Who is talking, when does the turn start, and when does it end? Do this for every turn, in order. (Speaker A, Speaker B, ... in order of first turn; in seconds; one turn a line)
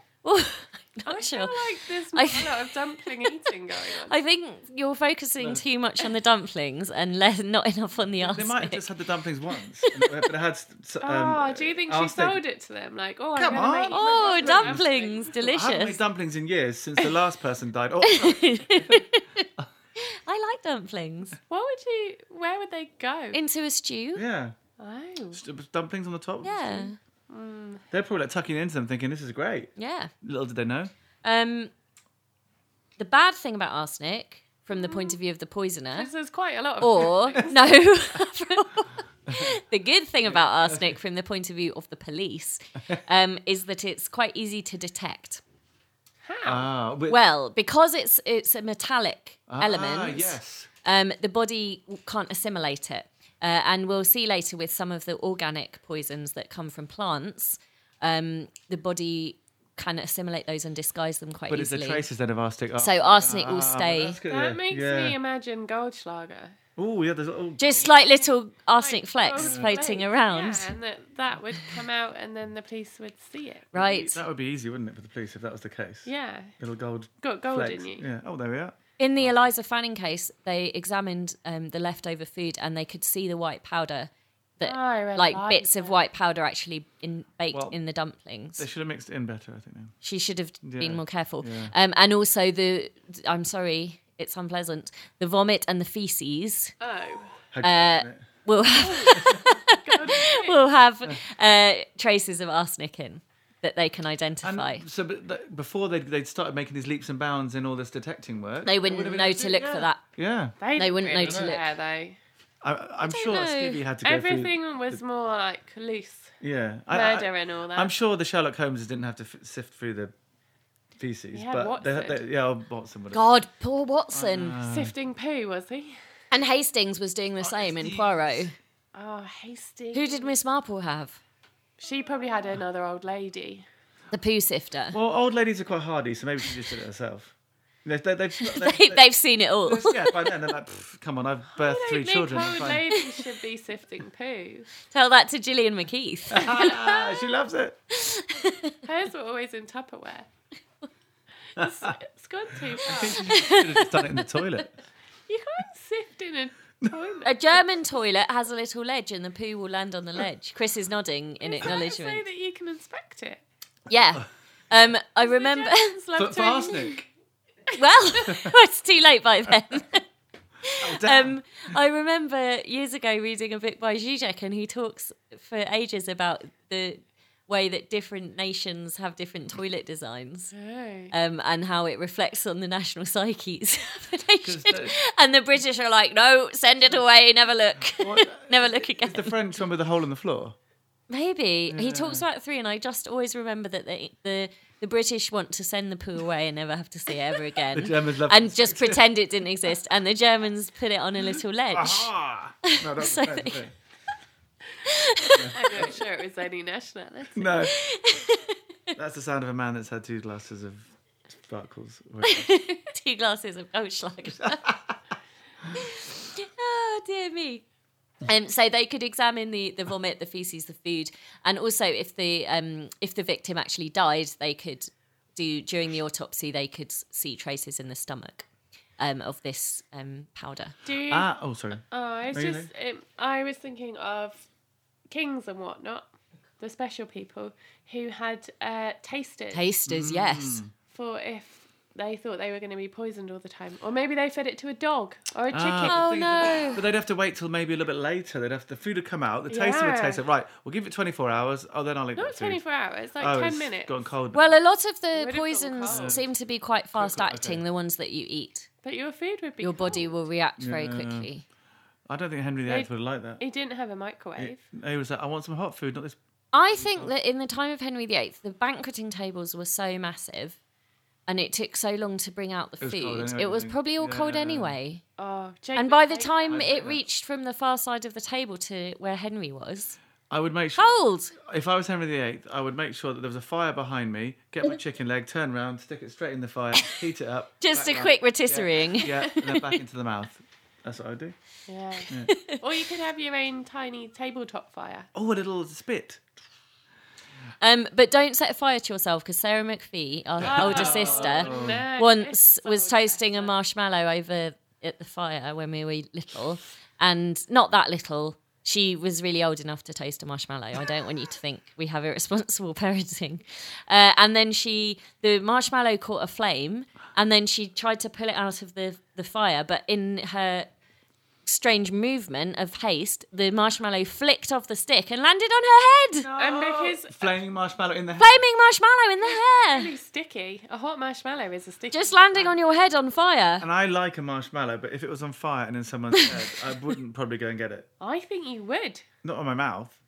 Speaker A: 0.2-3.3
Speaker B: 1.1-4.2
Speaker A: 4.0-8.8
Speaker C: 8.2-12.4
Speaker A: 9.8-10.1
Speaker B: 11.0-15.4
Speaker C: 13.3-14.8
Speaker A: 13.4-16.0
Speaker C: 15.3-19.1
Speaker A: 18.0-19.5
Speaker A: 20.0-21.4
Speaker B: 21.5-23.4
Speaker A: 23.3-24.2
Speaker C: 24.1-24.6
Speaker B: 24.8-25.4
Speaker C: 25.3-26.9
Speaker A: 26.4-27.0
Speaker B: 27.3-27.8
Speaker C: 27.9-30.9
Speaker A: 29.8-30.1
Speaker A: 31.2-31.7
Speaker A: 33.0-36.1
Speaker B: 34.7-35.2
Speaker B: 35.9-37.7
Speaker A: 36.8-45.4
Speaker C: 39.3-39.5
Speaker C: 40.2-41.0
Speaker B: 46.2-46.7
Speaker C: 46.4-47.2
Speaker A: 47.1-62.0
Speaker C: 49.5-50.7
Speaker C: 61.5-65.2
Speaker A: 62.8-64.2
Speaker B: 64.3-66.6
Speaker C: 66.8-67.9
Speaker A: 67.6-70.7
Speaker B: 68.8-73.7
Speaker C: 69.4-69.7
Speaker A: 73.7-74.2
Speaker C: 73.7-79.3
Speaker B: 76.0-76.5
Speaker B: 77.2-78.0
Speaker A: 79.0-88.7
Speaker B: 84.6-86.0
Speaker C: 87.5-87.8
Speaker C: 88.6-90.0
Speaker A: 90.0-96.7
Speaker C: 90.6-91.7
Speaker B: 96.8-97.4
Speaker C: 97.5-98.2
Speaker A: 97.6-104.8
Speaker B: 98.7-100.6
Speaker C: 99.1-99.5
Speaker C: 104.4-110.6
Speaker A: 108.6-110.0
Speaker B: 110.6-112.2
Speaker A: 110.7-111.6
Speaker C: 111.2-111.6
Speaker C: 112.6-115.0
Speaker A: 113.0-113.8
Speaker B: 114.0-116.3
Speaker C: 116.4-120.1
Speaker B: 116.9-117.9
Speaker C: 121.0-123.2
Speaker B: 121.3-122.2
Speaker A: 123.1-124.6
Speaker C: 124.1-124.9
Speaker B: 124.7-126.0
Speaker A: 126.3-128.5
Speaker C: 127.4-128.4
Speaker B: 128.9-130.3
Speaker A: 129.9-131.2
Speaker B: 131.8-133.6
Speaker A: 134.1-135.0
Speaker C: 134.9-137.3
Speaker C: 137.8-139.0
Speaker A: 138.4-140.4
Speaker C: 139.6-142.9
Speaker B: 141.6-144.7
Speaker A: 142.9-143.2
Speaker A: 144.9-146.9
Speaker C: 146.3-147.8
Speaker B: 146.6-147.2
Speaker A: 147.9-148.8
Speaker B: 148.8-150.3
Speaker B: 151.5-153.3
Speaker C: 151.6-151.9
Speaker C: 152.8-154.7
Speaker A: 153.0-154.3
Speaker B: 155.3-157.6
Speaker A: 157.2-162.2
Speaker B: 161.4-163.4
Speaker A: 163.9-165.9
Speaker B: 165.2-167.0
Speaker C: 166.1-167.0
Speaker A: 167.7-170.0
Speaker A: 170.6-180.5
Speaker C: 170.8-171.4
Speaker B: 180.5-181.1
Speaker A: 181.1-189.4
Speaker C: 184.4-184.9
Speaker C: 188.0-190.6
Speaker A: 191.1-202.1
Speaker C: 191.7-192.2
Speaker C: 197.7-199.0
Speaker C: 201.7-203.7
Speaker A: 202.6-203.6
Speaker A: 204.8-205.8
Speaker C: 205.3-206.0
Speaker B: 205.5-207.7
Speaker C: 207.3-207.8
Speaker A: 207.6-208.6
Speaker C: 208.9-212.5
Speaker A: 212.2-214.7
Speaker C: 214.4-214.7
Speaker A: 215.7-217.6
Speaker A: 218.2-228.4
Speaker A: 229.0-230.8
Speaker B: 230.8-231.3
Speaker C: 231.1-232.7
Speaker B: 231.9-234.5
Speaker B: 235.1-236.1
Speaker B: 236.6-239.7
Speaker A: 239.5-240.6
Speaker C: 239.9-240.7
Speaker B: 240.9-246.1
Speaker C: 245.5-252.6
Speaker A: 245.8-246.8
Speaker B: 249.5-250.2
Speaker B: 252.2-253.9
Speaker C: 253.2-254.5
Speaker A: 254.3-258.7
Speaker B: 255.1-256.2
Speaker C: 255.9-256.2
Speaker C: 256.9-257.6
Speaker B: 258.8-260.1
Speaker A: 259.6-261.4
Speaker C: 260.6-261.3
Speaker C: 262.1-263.4
Speaker B: 262.6-264.6
Speaker C: 264.4-266.2
Speaker A: 266.5-270.6
Speaker C: 266.7-267.1
Speaker A: 271.3-275.0
Speaker C: 272.8-274.8
Speaker B: 275.2-276.7
Speaker A: 275.8-280.0
Speaker C: 276.5-277.0
Speaker C: 280.3-291.3
Speaker A: 280.8-281.3
Speaker A: 287.6-289.7
Speaker B: 291.7-295.1
Speaker A: 292.2-292.6
Speaker C: 295.1-296.2
Speaker A: 297.6-320.7
Speaker C: 300.4-301.9
Speaker B: 300.4-303.6
Speaker A: 321.4-326.3
Speaker C: 326.2-328.4
Speaker B: 326.4-327.4
Speaker A: 328.2-329.9
Speaker B: 329.2-332.6
Speaker A: 331.9-333.6
Speaker C: 333.6-337.9
Speaker A: 336.1-336.4
Speaker B: 338.0-339.0
Speaker C: 339.2-340.0